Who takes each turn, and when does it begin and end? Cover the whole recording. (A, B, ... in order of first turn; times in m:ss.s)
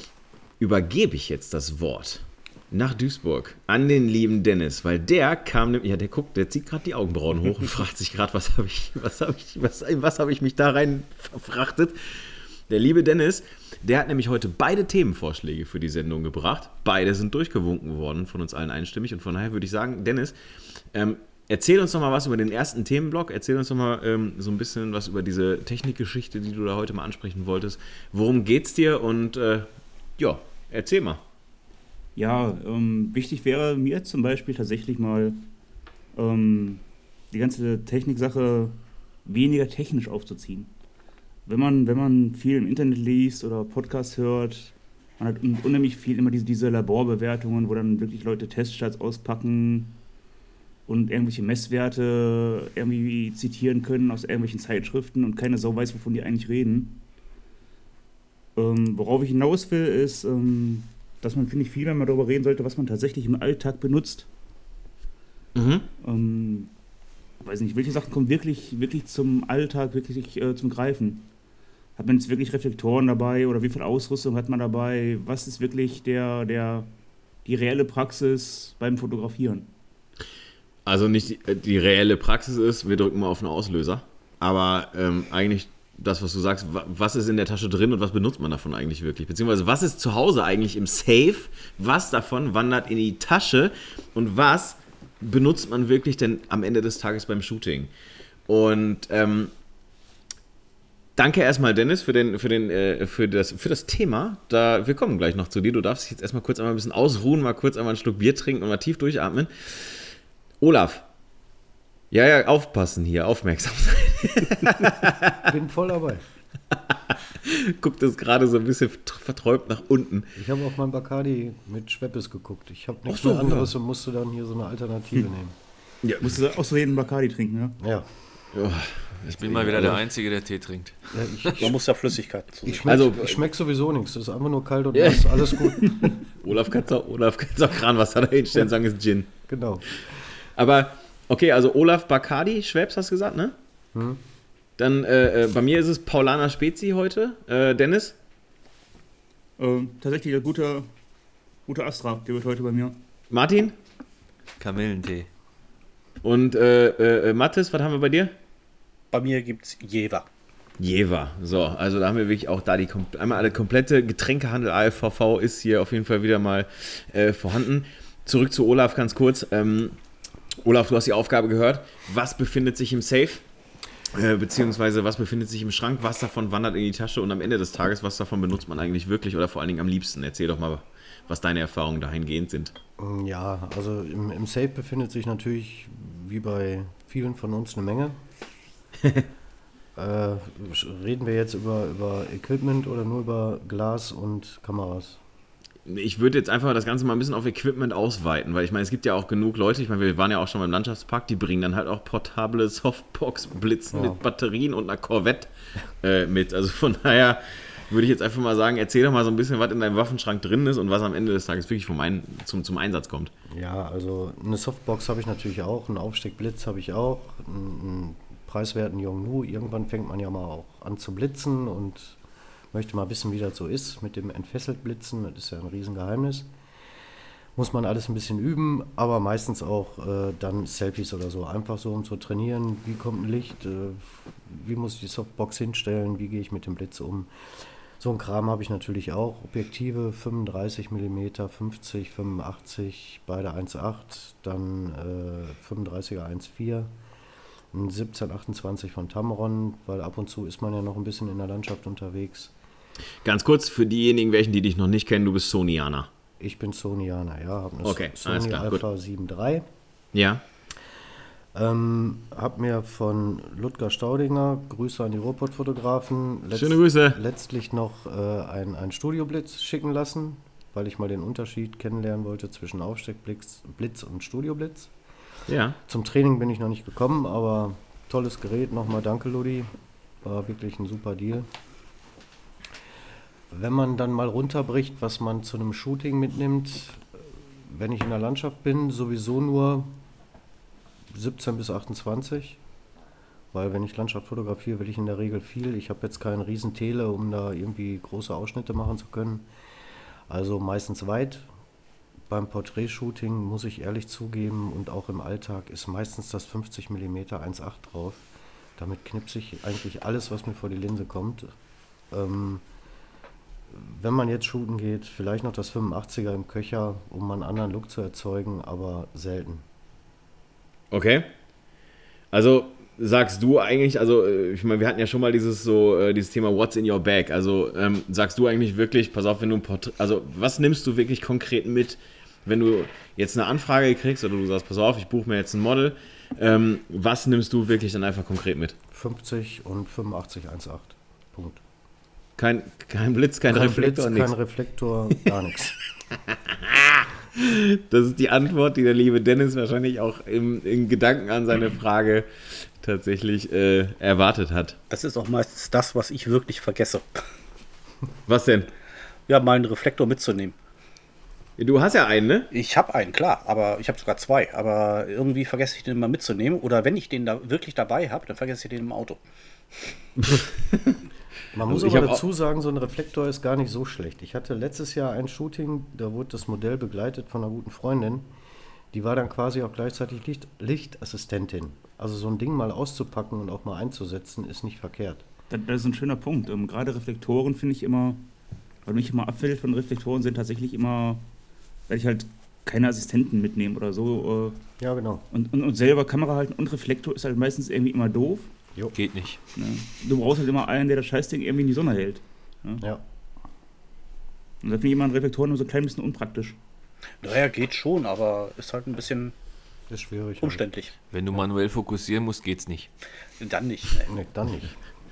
0:00.6-0:20.4 A
0:20.9-0:31.2 A
0:32.2-0:35.4 B
0:36.1-0:40.7 B
0:41.5-0:50.0 B
0:50.9-0:57.0 B
0:58.6-1:04.3 B
1:05.6-1:05.9 A
1:06.0-1:06.7 B
1:07.4-1:11.3 B
1:12.0-1:16.9 B
1:17.4-1:19.7 B
1:20.9-1:37.9 A
1:38.5-1:39.5 A
1:41.2-1:51.0 A
1:52.1-1:55.5 A
1:55.3-1:56.2 C
1:56.7-2:00.3 A
2:00.4-2:05.6 C
2:03.1-2:03.7 A
2:06.0-2:06.4 A
2:06.2-2:07.8 B
2:07.8-2:08.1 C
2:08.5-2:10.0 A
2:09.3-2:11.0 D
2:11.1-2:11.8 C
2:11.6-2:12.9 E
2:12.6-2:16.1 C
2:12.9-2:13.4 A
2:15.0-2:19.3 A
2:19.5-2:19.8 C
2:20.6-2:23.6 A
2:23.9-2:24.2 C
2:24.8-2:28.2 A
2:29.6-2:30.9 B
2:31.7-2:33.0 B
2:33.3-2:33.8 A
2:34.6-2:35.3 D
2:36.2-2:38.4 A
2:39.1-2:40.3 E
2:40.8-2:50.0 A
2:50.6-2:53.4 A
2:54.1-3:02.7 A
3:03.0-3:08.2 C
3:09.0-3:09.3 A
3:10.0-3:15.2 C
3:15.9-3:33.3 A
3:23.9-3:24.2 C
3:33.5-3:42.2 C
3:42.7-3:46.5 C
3:47.6-3:57.3 C
3:58.0-4:06.9 C
4:07.7-4:12.5 C
4:13.2-4:16.1 A
4:16.4-4:19.6 C
4:17.8-4:18.8 A
4:20.1-4:20.4 A
4:21.5-4:34.9 C
4:26.6-4:27.2 A
4:35.5-4:35.8 A
4:35.9-4:41.5 C
4:43.5-4:50.0 C
4:51.1-4:52.6 C
4:53.5-4:59.5 C
5:00.3-5:01.5 C
5:02.3-5:08.2 C
5:08.8-5:11.5 C
5:12.1-5:12.6 C
5:13.7-5:19.6 C
5:20.9-5:21.3 A
5:22.3-5:38.8 A
5:38.9-5:41.6 C
5:42.4-5:44.3 A
5:43.5-5:45.8 C
5:46.3-5:54.8 A
5:54.9-5:57.2 E
5:58.3-5:58.7 A
5:59.3-6:00.6 E
6:01.6-6:02.5 A
6:02.5-6:09.2 E
6:10.2-6:11.0 A
6:11.5-6:18.3 C
6:11.7-6:12.2 A
6:18.9-6:25.3 C
6:25.5-6:28.2 B
6:28.9-6:31.2 B
6:31.9-6:34.6 B
6:34.8-6:35.2 C
6:35.3-6:38.5 B
6:39.0-6:39.4 D
6:39.6-6:42.8 B
6:44.6-6:46.6 B
6:47.2-6:49.3 E
6:49.9-6:50.6 C
6:50.4-6:50.9 E
6:51.1-6:52.9 D
6:53.4-6:54.1 E
6:54.1-6:54.8 C